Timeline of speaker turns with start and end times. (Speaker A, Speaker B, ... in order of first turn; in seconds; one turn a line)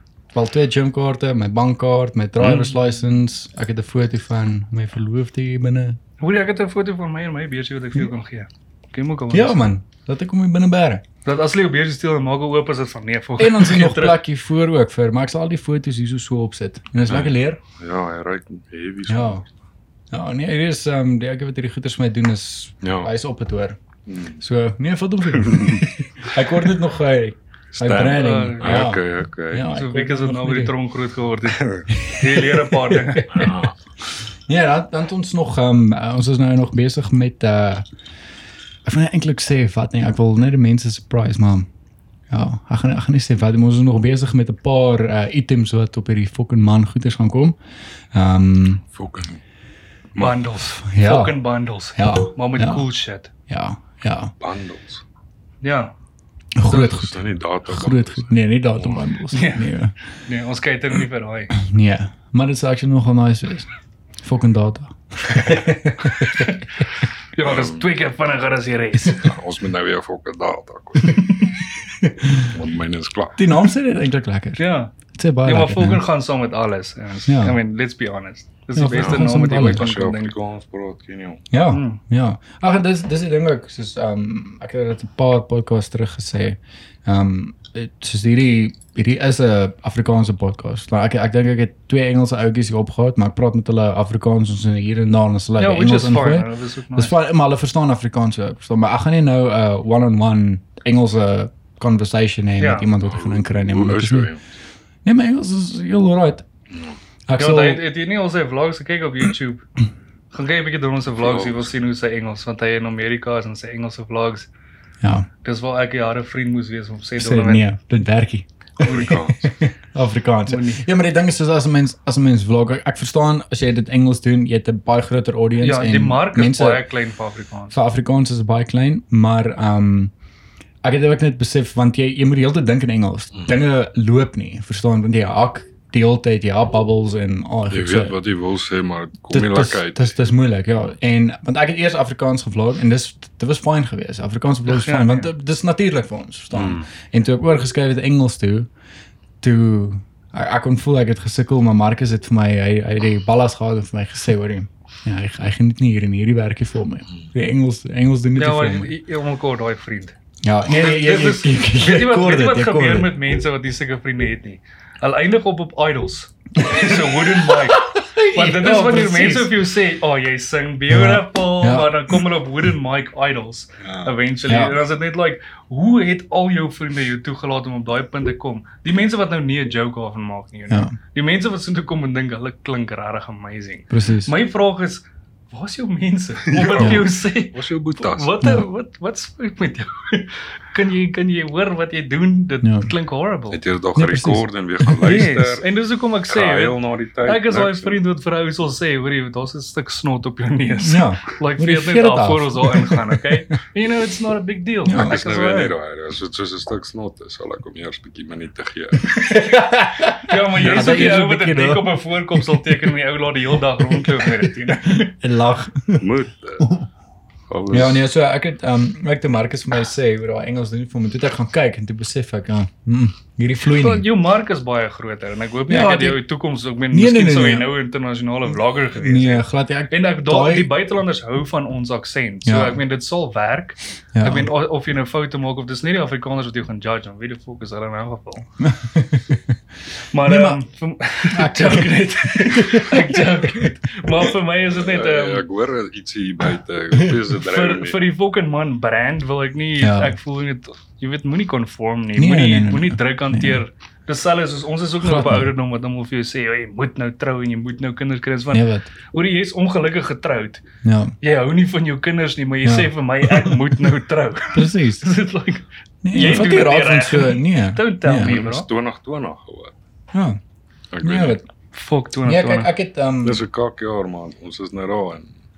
Speaker A: 0.3-6.0
Speaker B: 2.4-2.7
Speaker C: 6.2-9.7
Speaker A: 9.3-11.1
Speaker C: 11.2-14.2
Speaker A: 13.4-17.6
Speaker B: 17.1-19.4
Speaker A: 19.1-19.4
Speaker A: 20.1-23.8
Speaker B: 22.8-23.1
Speaker B: 24.1-24.4
Speaker A: 24.4-30.8
Speaker B: 25.3-25.9
Speaker B: 27.8-29.7
Speaker C: 28.0-28.9
Speaker C: 29.7-33.5
Speaker A: 31.9-33.6
Speaker B: 33.3-33.8
Speaker A: 34.5-37.9
Speaker A: 38.8-41.7
Speaker A: 42.3-47.6
Speaker A: 48.1-48.8
Speaker B: 48.9-49.4
Speaker C: 50.2-53.3
Speaker A: 50.6-51.4
Speaker A: 52.0-52.9
Speaker A: 53.5-54.3
Speaker B: 54.4-55.0
Speaker C: 55.6-55.9
Speaker A: 56.6-59.9
Speaker B: 56.7-59.0
Speaker C: 59.3-59.7
Speaker C: 60.2-61.5
Speaker A: 61.5-63.7
Speaker A: 64.2-66.5
Speaker C: 66.3-66.8
Speaker C: 67.3-69.2
Speaker B: 67.4-67.9
Speaker B: 69.2-71.3
Speaker A: 72.0-72.5
Speaker B: 72.3-73.4
Speaker A: 73.4-74.6
Speaker C: 74.6-80.3
Speaker A: 75.1-76.1
Speaker A: 77.3-77.6
Speaker A: 78.8-79.9
Speaker B: 79.0-81.4
Speaker A: 81.5-104.3
Speaker C: 81.7-82.0
Speaker C: 95.6-97.2
Speaker C: 102.6-102.9
Speaker B: 103.0-104.4
Speaker A: 105.0-106.5
Speaker B: 106.7-107.0
Speaker A: 107.3-107.8
Speaker C: 107.4-109.7
Speaker C: 110.3-114.5
Speaker B: 111.2-111.7
Speaker A: 115.0-115.3
Speaker C: 115.4-117.7
Speaker A: 117.2-126.9
Speaker B: 118.8-119.5
Speaker C: 118.8-119.2
Speaker C: 120.5-120.9
Speaker C: 125.6-127.8
Speaker A: 127.7-130.1
Speaker A: 130.8-138.2
Speaker B: 137.7-140.1
Speaker A: 139.3-148.7
Speaker C: 144.7-145.3
Speaker B: 146.5-146.9
Speaker A: 149.4-158.9
Speaker C: 158.3-160.2
Speaker A: 160.4-163.2
Speaker C: 160.7-193.6
Speaker A: 166.6-169.6
Speaker A: 170.9-172.2
Speaker A: 174.5-174.8
Speaker A: 180.7-180.9
Speaker A: 183.9-184.3
Speaker B: 186.5-188.4
Speaker A: 186.7-187.1
Speaker A: 188.4-188.7
Speaker A: 192.6-192.9
Speaker B: 193.5-195.7
Speaker A: 193.9-195.2
Speaker C: 195.0-205.7
Speaker B: 196.3-198.0
Speaker A: 200.8-203.4
Speaker A: 204.8-205.2
Speaker B: 204.9-209.3
Speaker A: 209.1-212.7
Speaker C: 210.2-215.1
Speaker B: 210.6-211.1
Speaker A: 213.8-216.9
Speaker B: 216.0-216.7
Speaker B: 217.5-218.1
Speaker A: 217.7-224.1
Speaker C: 223.7-238.5
Speaker A: 225.7-226.2
Speaker A: 226.9-227.7
Speaker A: 228.9-230.7
Speaker A: 232.4-232.8
Speaker A: 234.2-234.5
Speaker A: 238.6-239.5
Speaker C: 240.1-245.4
Speaker A: 240.2-240.6
Speaker A: 241.3-243.7
Speaker B: 244.7-248.0
Speaker C: 247.4-260.6
Speaker A: 249.8-250.2
Speaker A: 252.2-253.6
Speaker A: 255.0-255.5
Speaker A: 258.5-258.9
Speaker A: 260.8-261.1
Speaker C: 261.2-268.7
Speaker A: 262.6-263.8
Speaker A: 264.5-265.1
Speaker A: 266.0-268.4
Speaker B: 268.2-269.8
Speaker A: 270.1-270.4
Speaker B: 270.9-271.4
Speaker A: 271.0-271.4
Speaker C: 271.7-272.7
Speaker A: 272.2-273.4
Speaker B: 273.2-275.3